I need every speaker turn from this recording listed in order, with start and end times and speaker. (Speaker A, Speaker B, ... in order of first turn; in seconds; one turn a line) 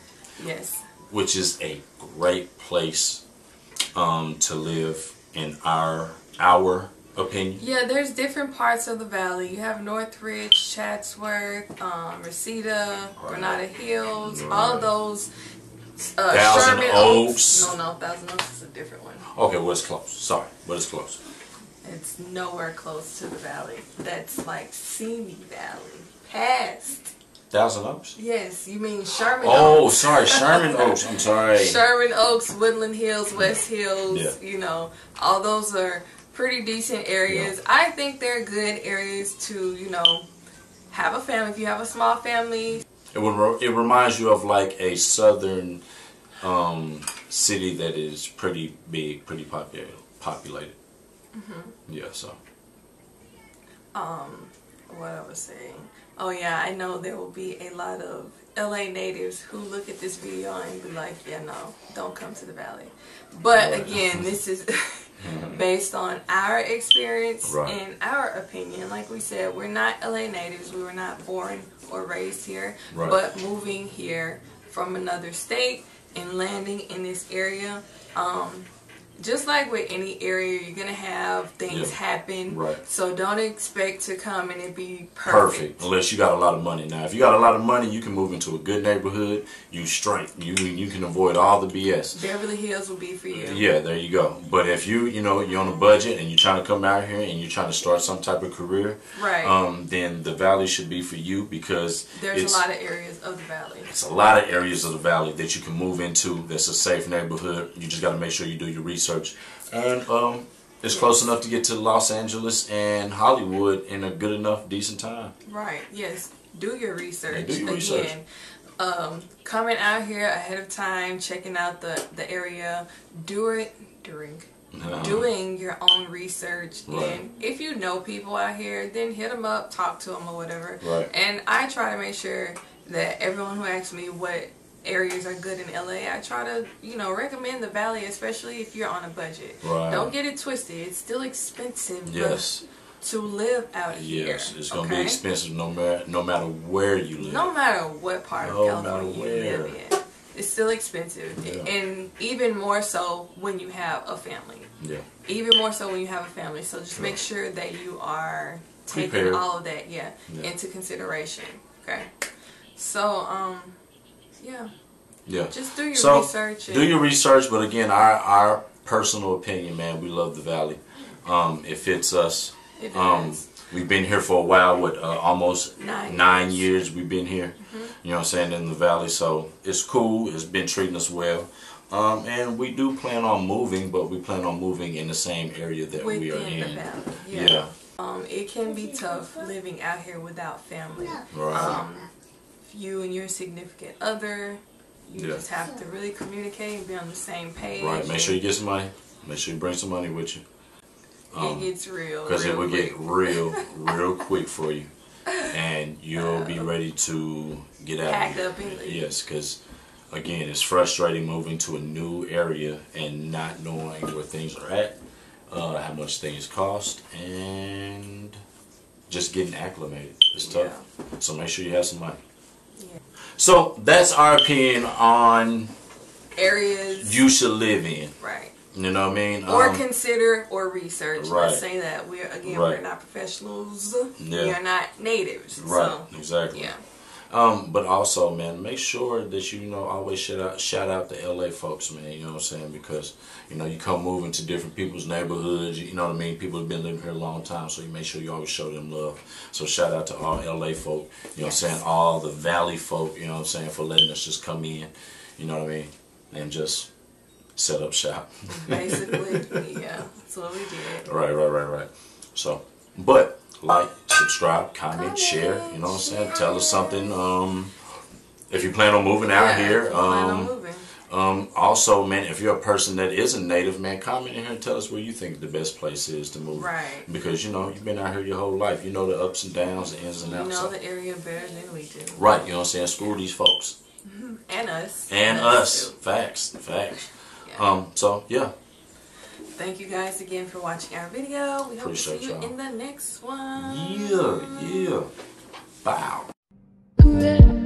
Speaker A: 0.4-0.8
Speaker B: 1.0-3.2
Speaker B: 3.9-7.6
Speaker A: 7.6-15.3
Speaker B: 13.2-13.6
Speaker B: 14.2-14.9
Speaker A: 16.0-19.3
Speaker B: 16.3-17.7
Speaker B: 19.3-21.2
Speaker A: 21.8-27.1
Speaker B: 27.5-28.1
Speaker A: 28.1-40.3
Speaker B: 29.4-31.8
Speaker B: 34.1-34.4
Speaker A: 40.9-42.9
Speaker B: 43.1-45.8
Speaker B: 46.4-50.8
Speaker A: 51.3-51.8
Speaker B: 51.9-52.4
Speaker A: 53.9-85.9
Speaker B: 63.5-64.3
Speaker B: 65.2-65.6
Speaker B: 67.4-67.8
Speaker B: 72.9-73.2
Speaker B: 81.7-82.0
Speaker B: 82.5-82.8
Speaker B: 85.2-92.2
Speaker A: 92.1-93.7
Speaker B: 93.3-102.6
Speaker A: 99.2-99.5
Speaker A: 102.2-103.9
Speaker B: 103.8-115.3
Speaker A: 115.5-118.2
Speaker B: 117.3-118.1
Speaker A: 118.8-142.5
Speaker B: 124.7-125.3
Speaker B: 126.9-127.2
Speaker B: 130.8-131.1
Speaker B: 139.6-140.1
Speaker B: 142.1-142.7
Speaker A: 143.0-145.2
Speaker B: 143.9-147.5
Speaker A: 147.2-154.7
Speaker B: 148.4-149.8
Speaker B: 151.4-151.7
Speaker B: 154.8-155.1
Speaker A: 155.3-162.1
Speaker B: 158.9-159.4
Speaker A: 162.8-163.8
Speaker A: 164.4-164.7
Speaker B: 165.3-187.7
Speaker A: 165.5-167.0
Speaker A: 172.8-173.4
Speaker A: 175.8-176.7
Speaker A: 177.6-177.9
Speaker A: 185.9-192.1
Speaker B: 191.3-191.8
Speaker A: 192.7-198.4
Speaker B: 195.2-195.4
Speaker B: 197.8-200.4
Speaker B: 201.3-201.7
Speaker A: 201.4-203.6
Speaker B: 202.2-209.6
Speaker A: 206.3-206.6
Speaker A: 208.1-209.1
Speaker B: 210.1-214.9
Speaker B: 215.5-218.4
Speaker B: 219.1-222.2
Speaker A: 220.4-220.8
Speaker B: 223.4-225.7
Speaker A: 226.4-227.2
Speaker B: 226.9-228.1
Speaker A: 228.2-228.6
Speaker B: 228.7-229.8
Speaker A: 229.5-236.8
Speaker B: 231.2-231.6
Speaker B: 232.4-232.8
Speaker B: 234.2-234.6
Speaker B: 235.6-236.7
Speaker B: 237.3-256.9
Speaker A: 251.4-251.7
Speaker B: 257.6-259.6
Speaker A: 258.5-261.1
Speaker B: 261.0-267.8
Speaker A: 264.9-267.2
Speaker B: 268.5-270.5
Speaker A: 269.2-270.9
Speaker B: 271.1-280.7
Speaker A: 276.5-277.1
Speaker A: 280.2-282.3
Speaker B: 282.1-283.8
Speaker A: 284.1-286.0
Speaker B: 285.1-288.5
Speaker A: 289.6-294.9
Speaker B: 291.8-292.5
Speaker B: 293.6-295.1
Speaker B: 295.8-296.3
Speaker A: 297.1-297.4